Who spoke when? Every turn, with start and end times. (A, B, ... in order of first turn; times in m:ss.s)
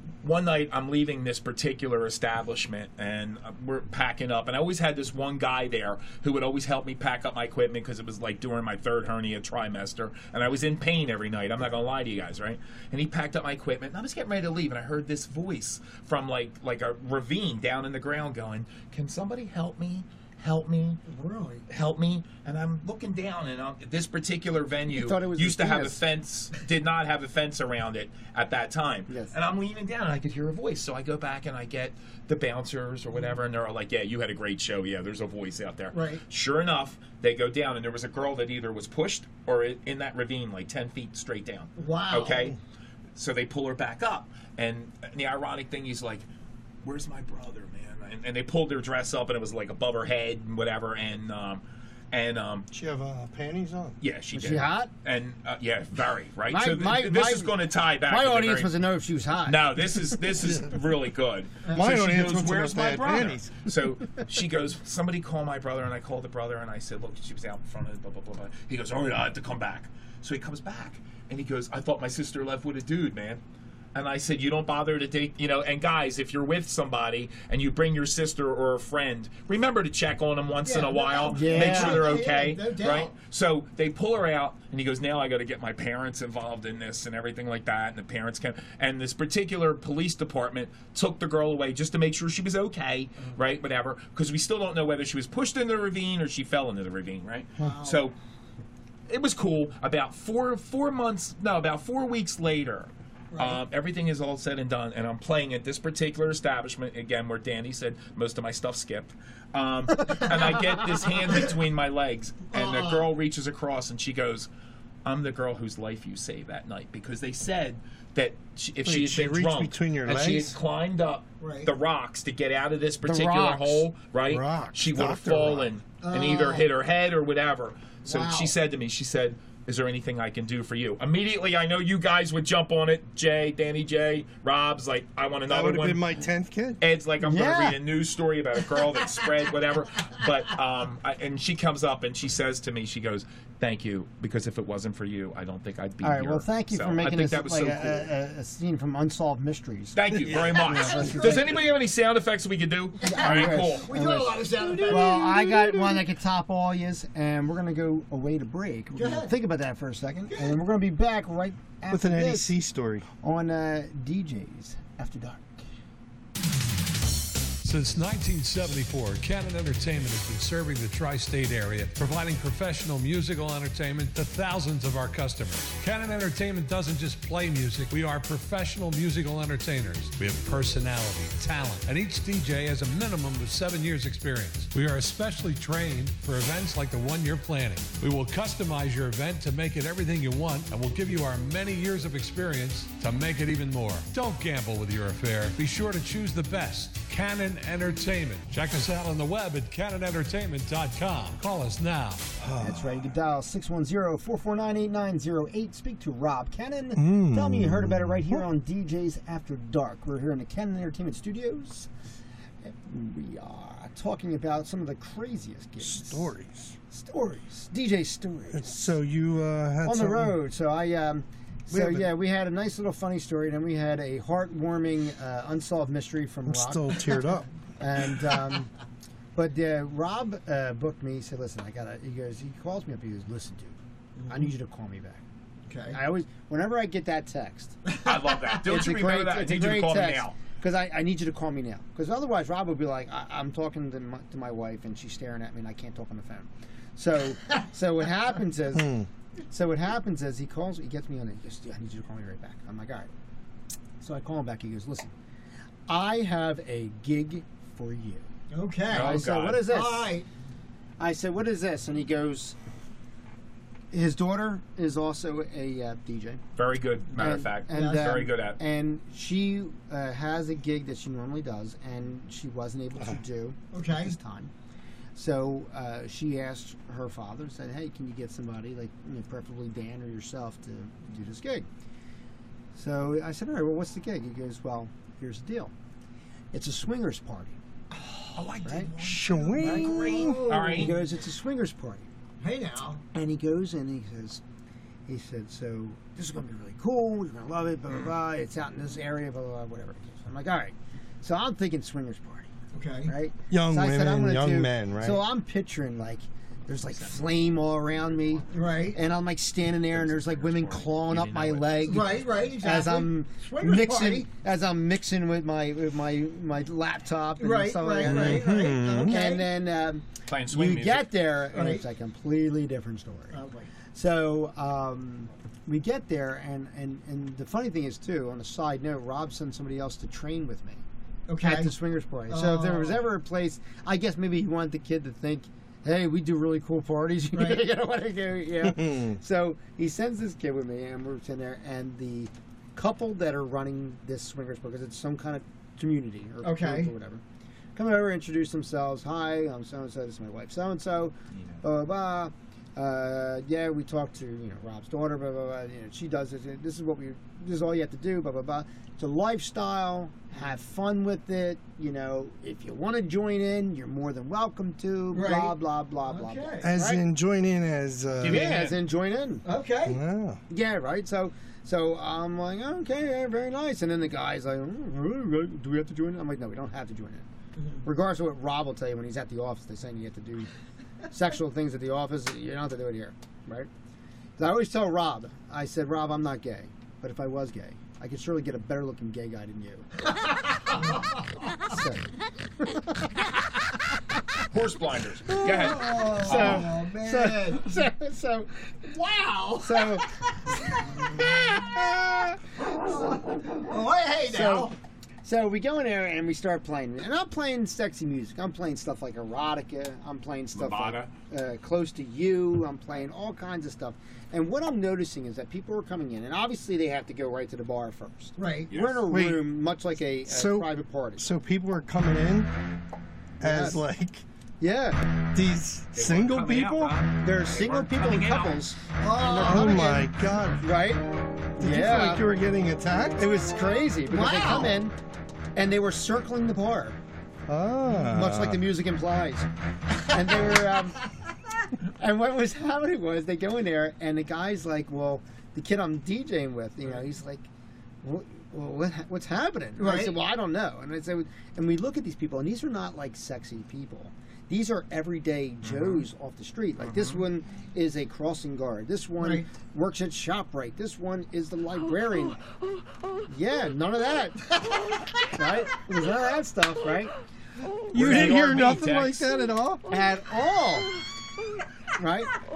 0:00.2-0:21.0 A
0:21.0-0:21.6 B
0:21.7-0:42.6 A
0:24.9-0:26.0 C
0:29.1-0:29.3 C
0:35.9-0:36.2 B
0:41.8-0:42.5 B
0:43.2-0:46.2 A
0:46.8-0:52.7 A
0:52.7-0:54.0 D
0:54.0-0:58.7 A
0:54.3-0:54.9 C
0:56.5-0:57.5 C
0:58.0-0:59.7 C
0:59.4-1:13.4 A
1:01.7-1:03.5 D
1:13.9-1:38.1 A
1:20.6-1:23.1 B
1:21.3-1:22.2 C
1:37.6-1:38.0 B
1:39.1-1:54.5 A
1:43.3-1:43.6 B
1:52.5-1:53.1 B
1:55.0-2:16.1 A
1:58.8-2:00.5 D
2:01.4-2:01.7 B
2:03.0-2:03.8 C
2:04.3-2:05.7 D
2:06.0-2:06.7 B
2:08.0-2:08.5 B
2:15.5-2:16.8 D
2:16.8-2:28.1 A
2:17.2-2:17.8 C
2:26.0-2:31.6 C
2:29.9-2:33.9 A
2:30.2-2:31.1 D
2:30.7-2:31.4 B
2:33.0-2:42.5 C
2:33.1-2:35.3 B
2:34.6-2:36.0 D
2:38.9-2:39.3 B
2:40.3-2:40.6 B
2:41.9-2:43.0 D
2:43.2-2:45.6 C
2:47.6-3:22.2 E
3:22.4-3:22.9 D
3:22.6-3:31.9 C
3:27.0-3:28.4 D
3:32.6-3:36.3 C
3:35.8-3:36.7 D
3:36.9-3:38.9 C
3:38.5-3:40.4 D
3:39.8-3:47.3 C
3:41.7-3:42.1 D
3:46.5-3:47.5 D
3:47.8-3:48.7 C
3:49.3-3:53.8 C
3:54.2-3:54.5 B
3:54.3-3:55.2 C
3:55.7-3:56.0 B
3:55.9-3:57.8 C
3:57.9-3:58.6 B
3:58.0-4:00.4 A
3:58.6-4:08.9 C
4:08.7-4:09.1 D
4:09.5-4:13.1 C
4:14.0-4:15.1 C
4:15.9-4:18.3 C
4:18.5-4:20.3 B
4:18.9-4:19.6 A
4:18.9-4:20.1 C
4:21.0-4:22.6 C
4:23.9-4:26.4 C
4:26.6-4:28.6 A
4:27.1-4:34.5 C
4:27.7-4:28.3 B
4:33.7-4:34.2 B
4:35.2-4:41.6 C
4:42.7-4:45.7 C
4:46.5-4:47.6 C
4:47.9-4:48.4 B
4:48.3-4:51.0 A
4:48.6-4:48.9 C
4:49.0-4:50.5 D
4:49.3-4:51.0 B
4:50.7-4:52.1 C
4:52.4-4:53.0 B
4:53.1-4:54.4 C
4:55.1-5:02.5 C
5:02.7-5:03.1 B
5:03.0-5:23.4 C
5:03.5-5:05.2 D
5:08.5-5:09.0 B
5:09.9-5:12.3 A
5:11.8-5:14.3 B
5:17.4-5:19.5 B
5:18.0-5:19.2 D
5:20.3-5:21.1 A
5:21.5-5:21.8 B
5:23.3-5:23.7 B
5:23.9-5:30.8 C
5:31.3-5:31.7 B
5:31.4-5:47.2 C
5:32.3-5:33.0 B
5:37.3-5:37.6 B
5:38.6-5:39.2 D
5:46.4-5:46.9 B
5:47.7-6:07.0 C
6:05.1-6:05.5 B
6:06.1-6:06.7 B
6:06.6-6:08.6 D
6:08.2-6:08.7 A
6:08.2-6:09.4 C
6:09.4-6:10.0 B
6:09.8-6:10.4 D
6:10.5-6:17.2 C
6:17.6-6:17.8 B
6:17.8-6:20.5 C
6:21.1-6:23.7 C
6:24.4-6:29.9 C
6:30.7-6:31.0 B
6:31.6-6:32.1 C
6:32.6-6:33.3 C
6:34.5-6:36.7 A
6:35.4-6:37.8 B
6:36.1-6:38.5 C
6:38.9-6:40.0 B
6:39.6-6:40.0 C
6:40.6-6:41.6 B
6:41.2-6:42.4 C
6:42.7-6:44.7 B
6:44.3-7:01.3 C
6:50.5-6:51.1 A
6:58.4-6:58.7 B
6:58.7-6:59.1 A
6:59.1-6:59.4 D
7:00.2-7:02.5 D
7:03.4-7:04.2 D
7:03.4-7:03.8 C
7:04.6-7:05.0 C
7:05.3-7:06.9 D
7:05.9-7:08.6 A
7:07.2-7:12.2 C
7:09.0-7:09.9 B
7:09.2-7:10.6 D
7:11.6-7:13.2 D
7:13.2-7:15.0 C
7:14.1-7:14.8 B
7:15.6-7:17.0 C
7:17.5-7:18.6 D
7:17.9-7:19.5 C
7:20.0-7:21.0 C
7:21.9-7:27.5 C
7:28.0-7:42.4 C
7:29.8-7:30.2 B
7:35.6-7:36.0 A
7:36.8-7:37.2 A
7:39.2-7:39.5 B
7:43.3-7:44.5 C
7:45.2-7:47.1 C
7:47.9-7:49.3 A
7:47.9-7:50.0 D
7:49.9-7:50.9 C
7:52.0-7:52.3 C